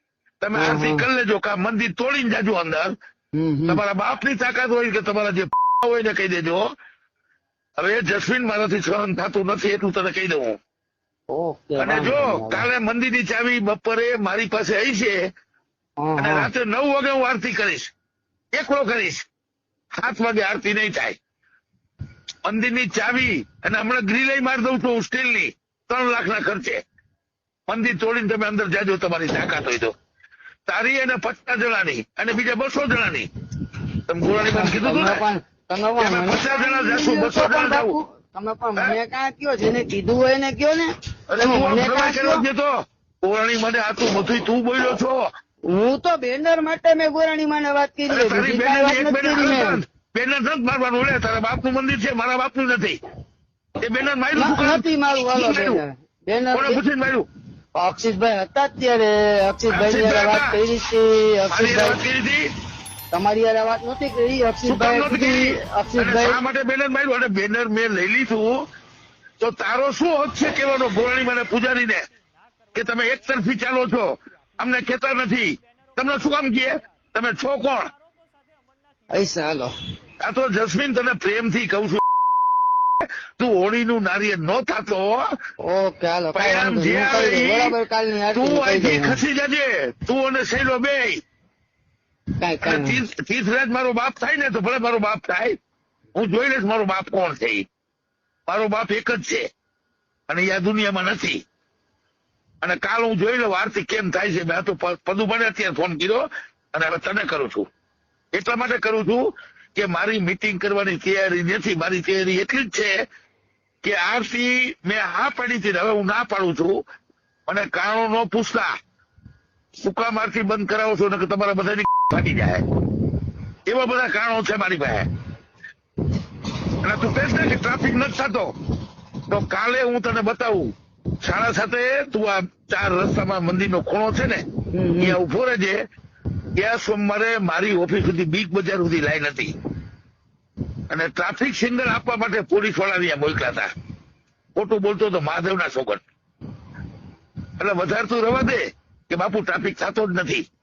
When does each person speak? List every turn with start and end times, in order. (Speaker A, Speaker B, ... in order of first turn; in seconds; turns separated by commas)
Speaker A: 0.4-2.9, Speaker B: 0.6-1.1, Speaker B: 3.3-3.8, Speaker A: 3.7-6.7, Speaker A: 7.8-10.6, Speaker B: 11.3-12.7, Speaker A: 11.8-15.3, Speaker B: 16.0-16.5, Speaker A: 16.2-17.9, Speaker A: 18.5-19.3, Speaker A: 20.0-21.2, Speaker A: 22.4-26.8, Speaker A: 27.7-29.9, Speaker A: 30.7-33.3, Speaker A: 34.1-35.2, Speaker B: 34.4-42.4, Speaker A: 36.0-38.0, Speaker A: 41.3-45.3, Speaker B: 45.7-49.8, Speaker A: 48.1-53.0, Speaker A: 53.8-55.8, Speaker B: 54.3-56.8, Speaker A: 56.5-57.2, Speaker B: 57.8-62.0, Speaker A: 59.7-60.6, Speaker A: 61.5-62.5, Speaker B: 63.1-66.4, Speaker A: 64.6-68.6, Speaker A: 69.4-72.1, Speaker A: 72.7-77.9, Speaker B: 79.1-79.7, Speaker A: 80.2-82.0, Speaker A: 83.0-85.3, Speaker B: 85.6-89.2, Speaker A: 86.3-87.7, Speaker A: 88.3-91.2, Speaker B: 92.4-93.0, Speaker A: 92.6-95.6, Speaker A: 96.1-97.7, Speaker A: 98.5-99.5, Speaker A: 100.3-101.4, Speaker A: 102.6-107.7, Speaker A: 108.3-113.0, Speaker A: 113.8-116.8, Speaker A: 117.5-118.7, Speaker A: 119.8-122.6, Speaker A: 123.7-125.1, Speaker A: 126.8-128.6, Speaker A: 129.3-134.4, Speaker B: 134.7-135.2, Speaker A: 135.0-135.8, Speaker A: 136.6-139.5, Speaker A: 140.9-143.7, Speaker A: 144.5-146.0, Speaker A: 147.6-150.4